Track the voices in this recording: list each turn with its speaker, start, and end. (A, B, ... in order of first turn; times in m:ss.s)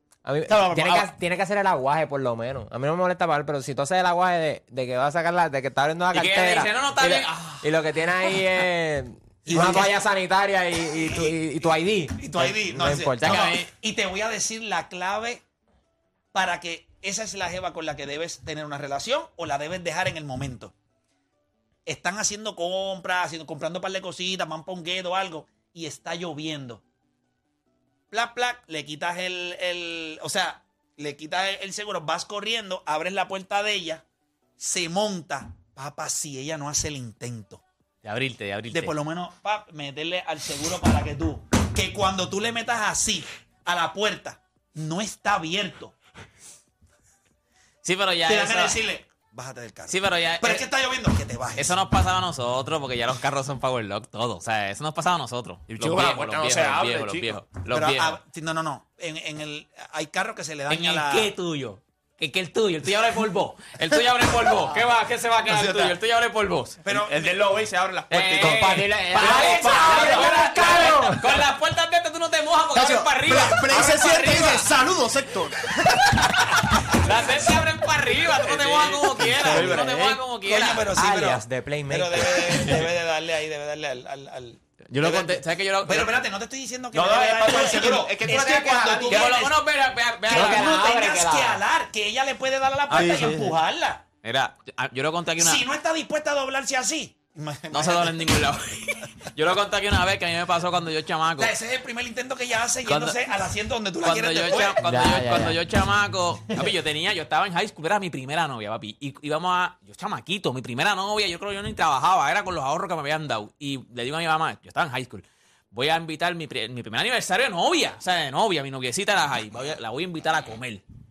0:00.2-0:13.5 A
0:00.5-0:01.1 B
0:06.1-0:07.6 C
0:09.5-0:09.9 D
0:11.0-0:11.3 D
0:12.2-0:15.4 D
0:13.2-0:13.7 C
0:16.3-0:20.7 D
0:21.8-0:26.8 D
0:28.1-0:34.0 D
0:34.6-0:37.6 D
0:38.0-0:38.9 C
0:38.7-0:45.9 D
0:47.8-0:48.8 C
0:48.2-0:51.8 D
0:49.9-0:50.7 C
0:51.6-0:58.2 C
0:55.7-0:57.4 E
0:57.7-1:01.3 D
1:00.7-1:06.8 C
1:05.5-1:06.0 D
1:06.8-1:07.4 D
1:06.9-1:10.5 E
1:08.1-1:14.7 C
1:08.1-1:11.2 A
1:09.9-1:10.9 D
1:12.7-1:16.1 B
1:16.8-1:20.9 C
1:18.5-1:19.8 E
1:19.4-1:19.8 B
1:19.5-1:20.2 A
1:20.4-1:29.6 D
1:20.9-1:22.6 A
1:22.6-1:22.8 C
1:24.9-1:26.1 C
1:26.9-1:29.4 E
1:29.1-1:30.7 C
1:30.2-1:34.0 D
1:30.3-1:31.6 A
1:32.9-1:33.5 B
1:33.0-1:33.4 E
1:34.2-1:35.6 C
1:35.4-1:38.4 D
1:37.7-1:41.5 C
1:41.4-1:44.8 D
1:42.8-1:43.2 C
1:44.0-2:00.8 C
1:44.8-1:45.6 A